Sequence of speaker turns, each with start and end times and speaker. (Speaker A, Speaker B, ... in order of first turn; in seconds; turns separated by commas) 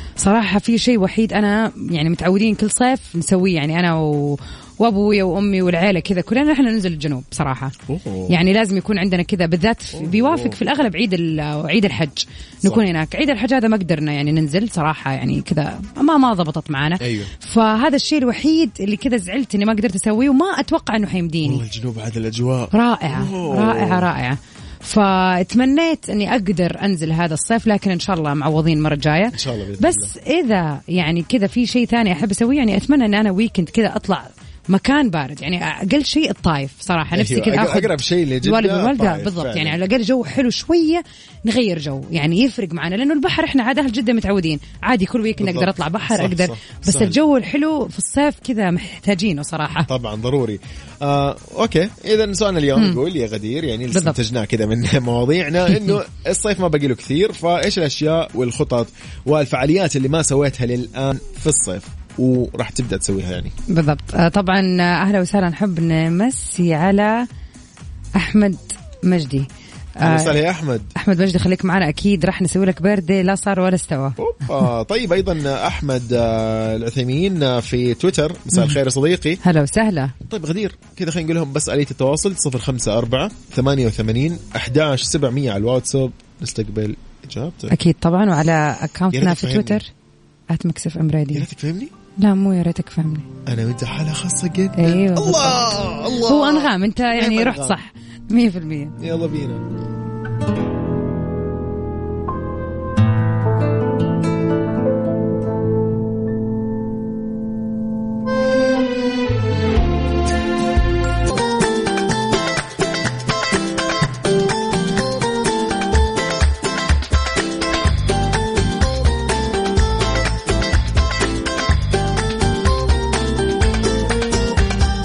Speaker A: 0.2-7.7, Speaker B: 7.9-8.3, Speaker A: 8.3-21.6, Speaker B: 9.9-10.6, Speaker B: 17.0-17.3, Speaker B: 21.4-24.1, Speaker A: 22.7-49.9, Speaker B: 29.3-30.1, Speaker B: 37.1-39.8, Speaker B: 45.4-47.2, Speaker B: 49.9-63.5, Speaker A: 53.9-54.2, Speaker A: 63.7-67.3, Speaker A: 68.2-69.5, Speaker A: 70.0-70.4, Speaker B: 70.0-70.9, Speaker A: 70.9-74.2, Speaker B: 74.2-79.4, Speaker A: 79.4-80.1, Speaker B: 80.2-87.7, Speaker A: 87.7-89.9, Speaker B: 89.1-89.8, Speaker A: 90.5-91.5, Speaker B: 91.3-91.9, Speaker A: 92.2-93.3, Speaker B: 93.5-97.8, Speaker A: 94.8-99.0, Speaker B: 99.0-99.6